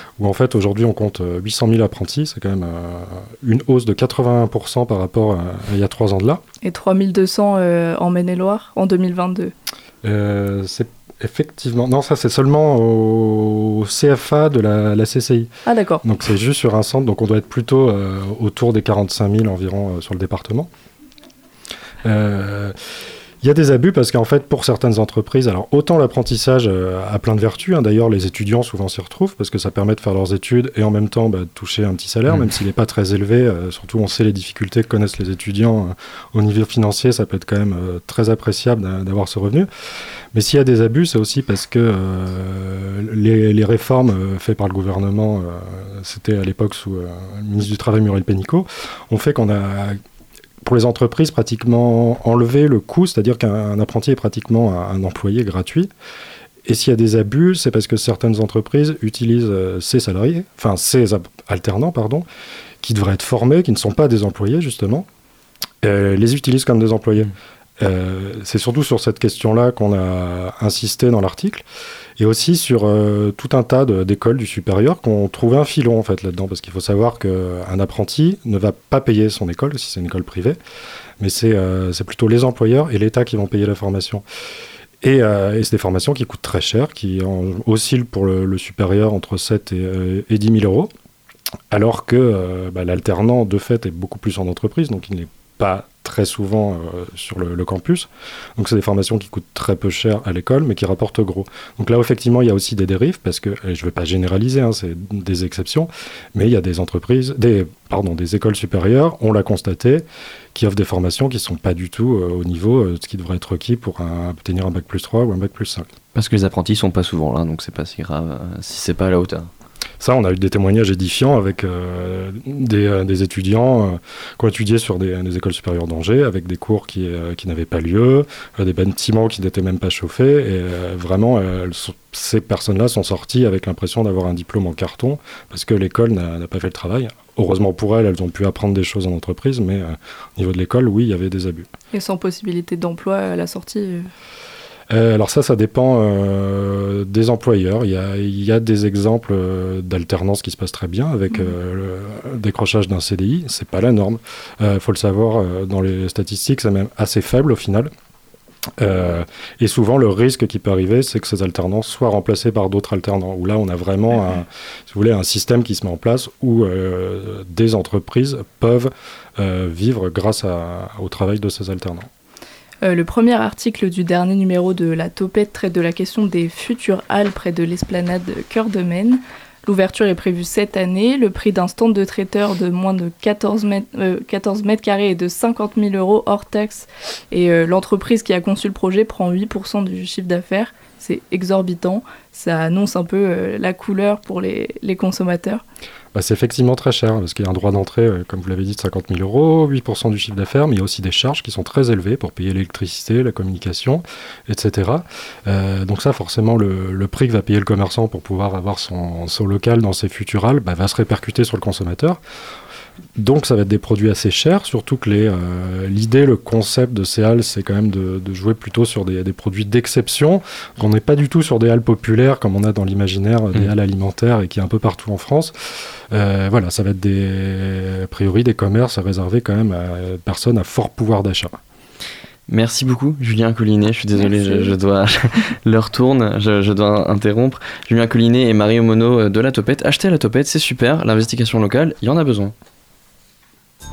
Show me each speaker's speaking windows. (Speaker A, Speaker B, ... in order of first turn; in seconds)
Speaker A: 0.2-6.4, 10.0-15.5, 16.0-20.7, 22.0-22.7, 23.4-39.7, 40.3-50.0, 50.6-55.9, 56.6-62.2, 62.8-65.1, 65.8-71.6, 72.2-80.6, 81.2-84.2, 85.0-90.9, 91.7-115.9, 120.0-141.7, 144.9-157.9, 158.8-172.1, 196.1-212.2, 213.2-225.5, 226.1-231.6
Speaker B: 6.6-9.5, 15.7-16.0, 141.9-144.1, 172.8-195.6, 234.2-234.7
Speaker C: 116.1-119.5, 232.5-242.5